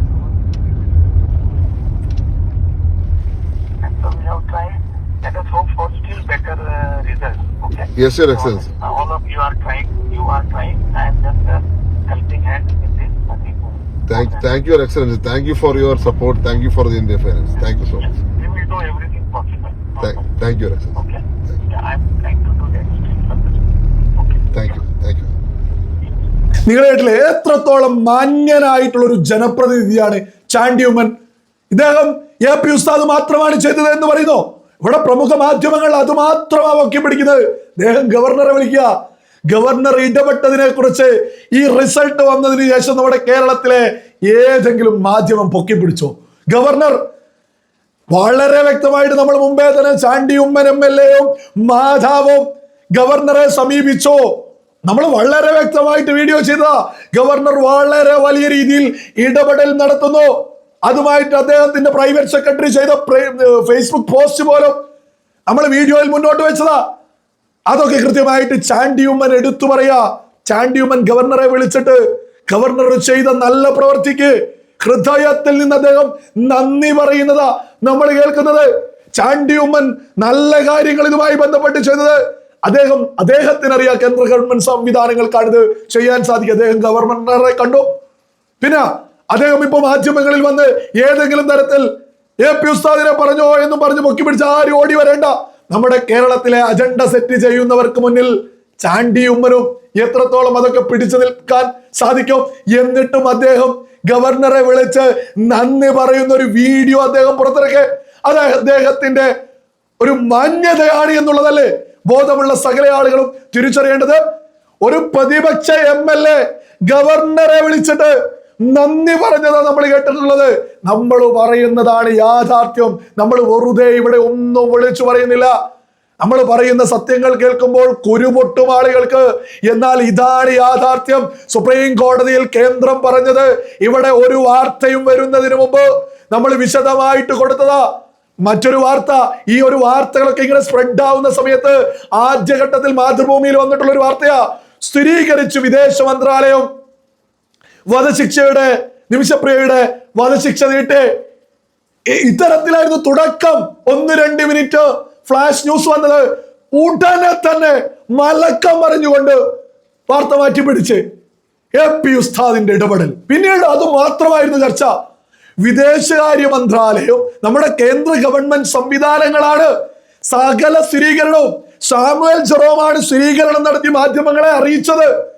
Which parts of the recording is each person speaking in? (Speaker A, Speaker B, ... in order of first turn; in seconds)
Speaker A: 3.8-14.5, 18.0-20.2, 20.9-24.8
Speaker B: 7.9-8.7, 14.1-18.1, 20.0-21.0, 24.5-25.3
Speaker C: 26.6-31.1, 31.7-38.9, 39.5-47.0, 48.1-54.2, 54.9-60.3, 60.9-64.8, 65.5-66.8, 67.7-87.8, 88.6-91.8, 92.4-109.3, 110.0-114.2, 114.8-118.1, 118.7-125.5, 126.2-137.8, 138.4-146.7, 147.9-151.1, 152.1-159.4, 160.1-161.0, 161.7-164.9, 165.6-169.7, 170.2-175.1